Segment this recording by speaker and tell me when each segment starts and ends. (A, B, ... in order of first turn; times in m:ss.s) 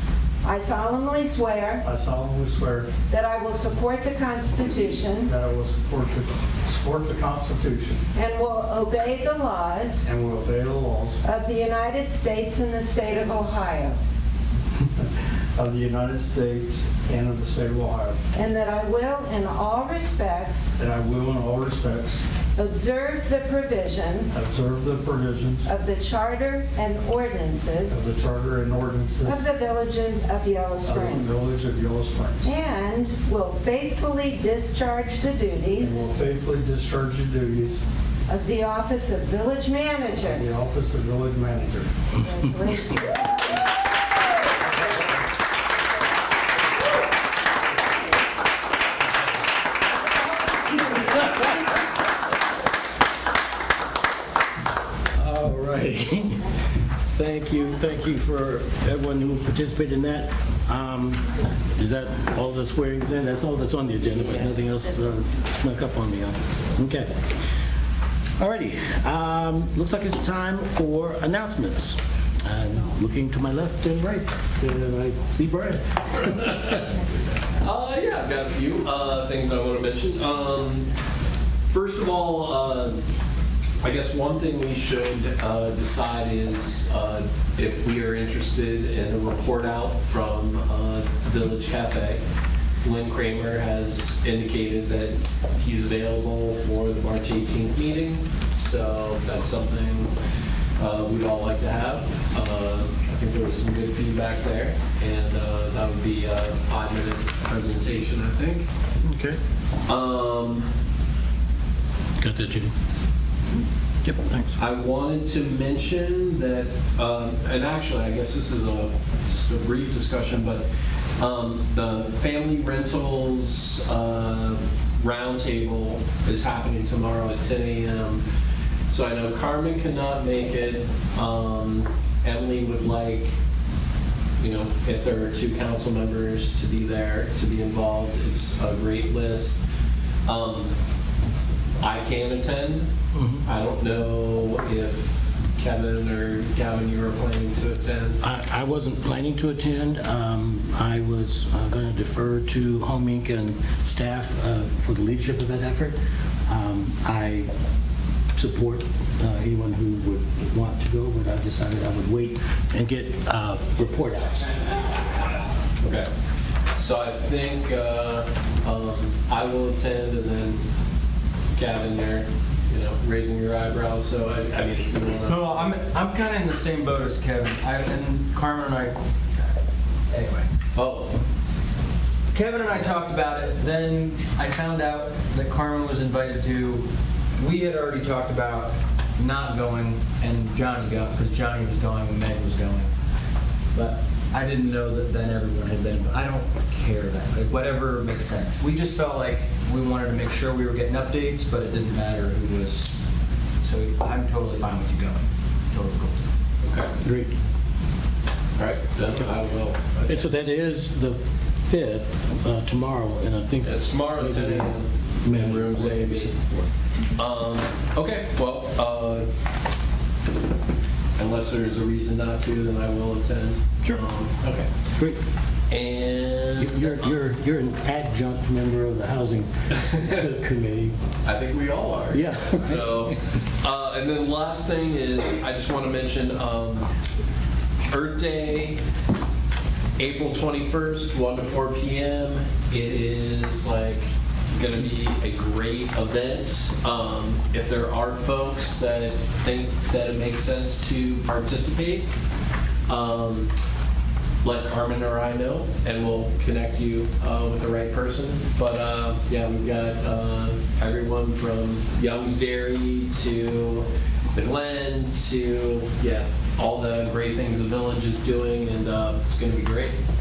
0:00.4-0:01.8 A
0:01.8-0:02.9 B
0:03.1-0:05.3 A
0:05.3-0:08.0 B
0:08.1-0:10.1 A
0:10.0-0:11.2 B
0:11.2-0:14.0 A
0:15.0-0:18.2 B
0:18.3-0:20.7 A
0:20.8-0:22.2 B
0:22.6-0:24.4 A
0:24.3-0:25.7 B
0:25.6-0:28.1 A
0:27.9-0:29.4 B
0:29.2-0:31.5 A
0:30.8-0:32.5 B
0:32.4-0:36.1 A
0:35.8-0:37.8 B
0:38.3-0:40.5 A
0:40.3-0:41.9 B
0:42.1-0:43.7 A
0:55.1-0:56.4 C
0:57.1-1:07.2 C
1:08.4-1:16.8 C
1:16.5-1:16.8 D
1:17.6-1:20.9 D
1:21.7-1:23.1 D
1:23.8-1:32.2 D
1:32.8-1:40.1 D
1:40.8-1:48.7 D
1:49.0-1:49.4 C
1:49.9-1:50.7 D
1:52.2-1:52.7 C
1:54.0-1:54.6 C
1:54.6-2:00.6 D
2:01.2-2:08.2 D
2:08.9-2:13.3 D
2:14.4-2:19.6 D
2:20.3-2:20.7 D
2:21.8-2:22.9 D
2:23.1-2:23.4 C
2:23.4-2:28.2 D
2:28.2-2:37.5 C
2:38.4-2:44.6 C
2:45.8-2:46.1 D
2:46.8-2:50.6 D
2:51.5-2:55.6 D
2:55.3-2:59.0 E
3:00.1-3:00.5 E
3:00.8-3:01.2 D
3:02.3-3:12.9 E
3:13.7-3:22.9 E
3:23.6-3:26.2 E
3:26.6-3:26.9 D
3:27.0-3:27.3 C
3:28.6-3:30.3 D
3:30.1-3:36.7 C
3:33.6-3:36.4 D
3:37.2-3:39.3 D
3:41.2-3:44.7 D
3:45.0-3:45.2 C
3:45.7-3:47.1 D
3:46.6-3:51.0 C
3:51.2-3:56.9 D
3:52.1-3:53.1 C
3:57.9-3:58.8 D
4:00.0-4:12.1 D
4:12.9-4:13.5 D
4:14.4-4:30.0 D